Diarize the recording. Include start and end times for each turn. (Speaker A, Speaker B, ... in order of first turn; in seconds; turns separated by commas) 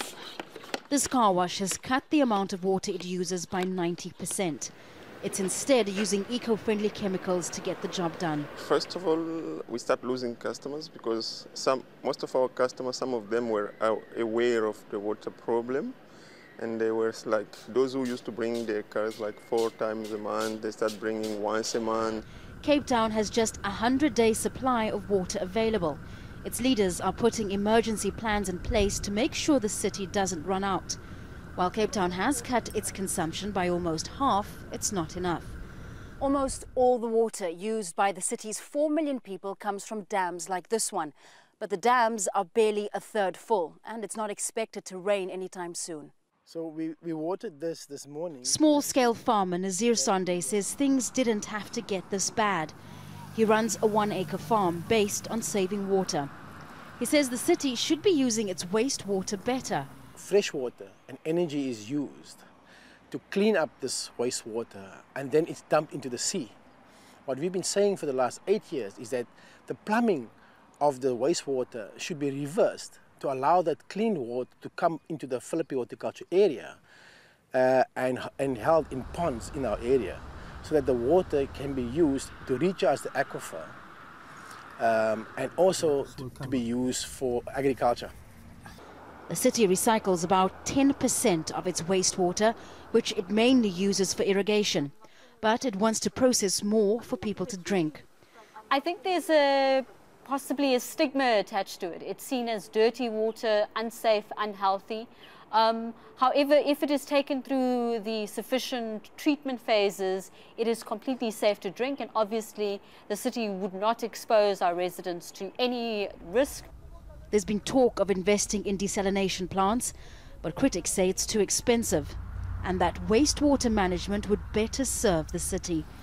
Speaker A: 0.9-8.5, Speaker B: 8.6-15.9, Speaker B: 16.6-22.2, Speaker A: 22.6-31.0, Speaker A: 31.6-35.5, Speaker A: 36.2-46.1, Speaker C: 46.5-49.1, Speaker A: 48.4-52.7, Speaker C: 49.9-50.6, Speaker A: 53.3-56.3, Speaker A: 57.0-59.9, Speaker C: 60.1-62.4, Speaker C: 63.1-66.5, Speaker C: 67.2-76.8, Speaker C: 77.5-83.8, Speaker C: 84.8-88.1, Speaker A: 89.3-98.0, Speaker D: 98.7-116.7, Speaker A: 117.3-125.8